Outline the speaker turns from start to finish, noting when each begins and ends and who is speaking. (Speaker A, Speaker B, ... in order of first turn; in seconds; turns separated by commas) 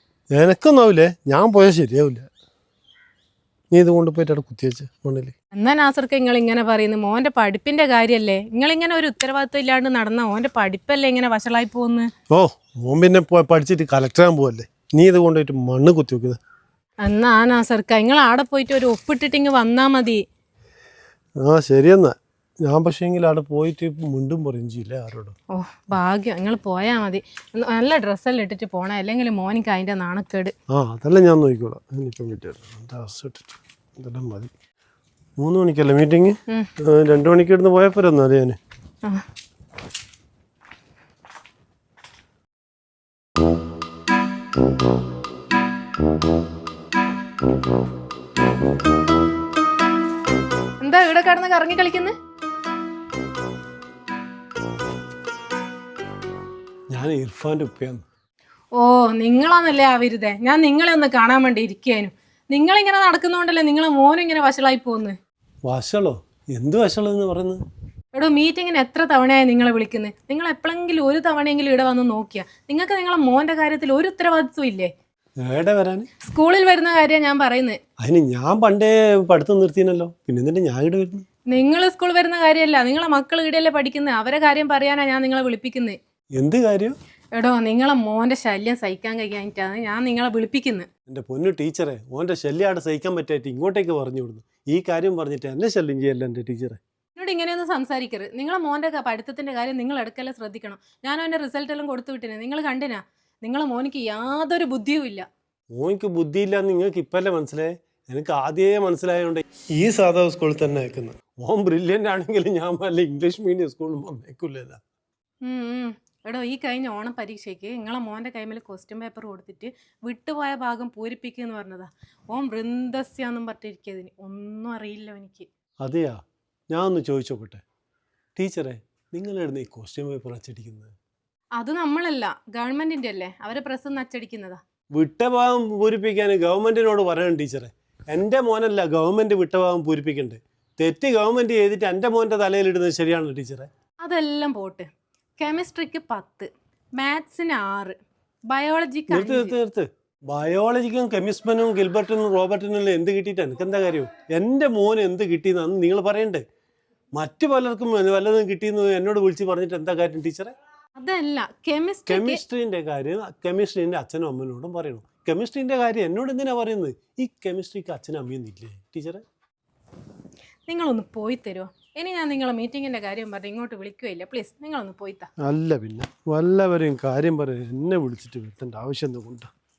Speaker A: 0.3-2.3, Speaker A: 3.7-5.3, Speaker B: 5.5-12.1, Speaker A: 12.3-16.4, Speaker B: 17.0-20.2, Speaker A: 21.4-25.3, Speaker B: 25.5-30.5, Speaker A: 30.7-34.5, Speaker A: 35.4-38.6, Speaker B: 50.8-52.1, Speaker A: 56.9-58.0, Speaker B: 58.7-65.2, Speaker A: 65.7-67.6, Speaker B: 68.1-74.9, Speaker A: 75.4-76.1, Speaker B: 76.2-77.8, Speaker A: 78.0-81.2, Speaker B: 81.5-86.0, Speaker A: 86.3-87.0, Speaker B: 87.3-90.9, Speaker A: 91.1-96.8, Speaker B: 97.2-105.3, Speaker A: 105.7-114.8, Speaker B: 115.4-125.5, Speaker A: 125.8-126.2, Speaker A: 126.7-127.6, Speaker A: 128.3-130.9, Speaker B: 131.6-134.6, Speaker A: 134.9-143.7, Speaker B: 144.0-144.9, Speaker B: 145.4-147.9, Speaker B: 148.5-149.5, Speaker A: 149.1-156.4, Speaker A: 157.1-160.5, Speaker B: 161.0-162.4, Speaker A: 162.1-169.2, Speaker B: 170.7-175.3, Speaker A: 175.4-179.5